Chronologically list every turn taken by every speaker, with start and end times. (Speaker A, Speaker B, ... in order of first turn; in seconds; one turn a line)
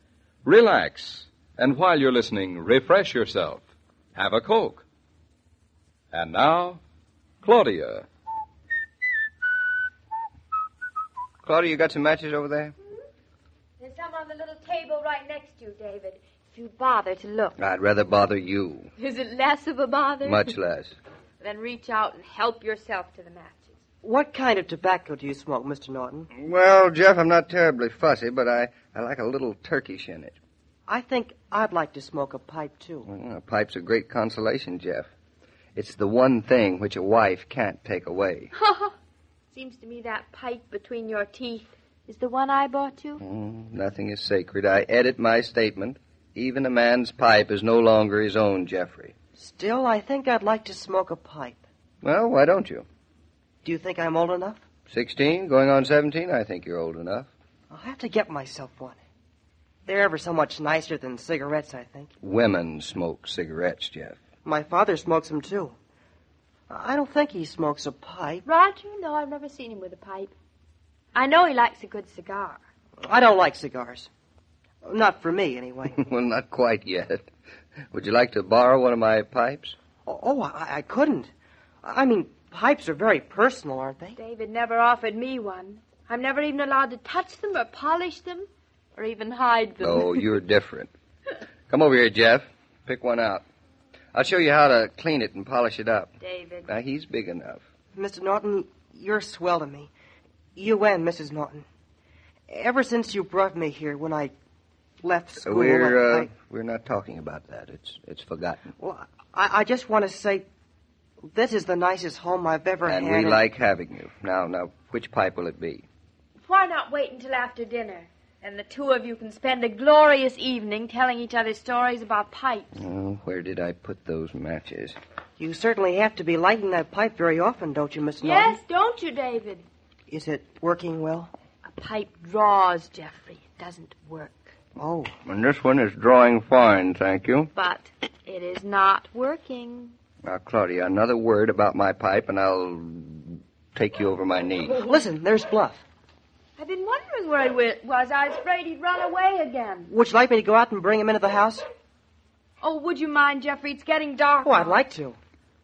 Speaker A: 0.5-4.8
Speaker A: 6.1-6.8
Speaker A: 7.4-8.1
Speaker B: 11.4-12.7
Speaker C: 13.8-17.6
Speaker B: 17.6-18.9
Speaker C: 19.0-20.5
Speaker B: 20.2-21.0
Speaker C: 21.4-23.8
Speaker D: 24.0-26.3
Speaker B: 26.4-30.4
Speaker D: 30.9-33.1
Speaker B: 33.1-35.1
Speaker B: 35.8-38.5
Speaker C: 38.5-39.0
Speaker C: 39.5-43.2
Speaker B: 43.2-49.1
Speaker D: 49.4-51.6
Speaker B: 52.0-52.9
Speaker D: 53.6-54.6
Speaker B: 54.9-57.3
Speaker D: 57.7-59.0
Speaker D: 59.9-62.1
Speaker B: 62.2-64.2
Speaker D: 64.5-65.8
Speaker D: 66.7-68.5
Speaker C: 68.5-70.3
Speaker C: 71.2-72.6
Speaker D: 73.0-74.1
Speaker D: 74.8-76.0
Speaker B: 76.0-77.3
Speaker B: 77.9-79.8
Speaker D: 80.1-81.3
Speaker D: 81.8-84.2
Speaker C: 84.2-90.3
Speaker B: 89.8-90.9
Speaker B: 91.7-93.4
Speaker B: 94.1-96.1
Speaker C: 96.2-96.7
Speaker B: 96.7-97.6
Speaker D: 97.9-99.9
Speaker D: 100.6-101.7
Speaker D: 102.5-104.3
Speaker D: 105.0-106.3
Speaker B: 105.4-108.7
Speaker D: 108.8-110.5
Speaker D: 111.3-113.4
Speaker B: 112.9-115.9
Speaker C: 116.5-122.7
Speaker B: 122.7-125.0
Speaker D: 125.4-128.6
Speaker C: 128.2-129.7
Speaker D: 130.1-131.3
Speaker C: 131.7-134.5
Speaker D: 134.8-135.1
Speaker B: 135.2-137.5
Speaker C: 137.6-139.9
Speaker B: 140.2-144.8
Speaker D: 144.8-145.8
Speaker C: 146.6-149.9
Speaker D: 149.9-151.7
Speaker C: 152.6-154.8
Speaker D: 154.4-155.2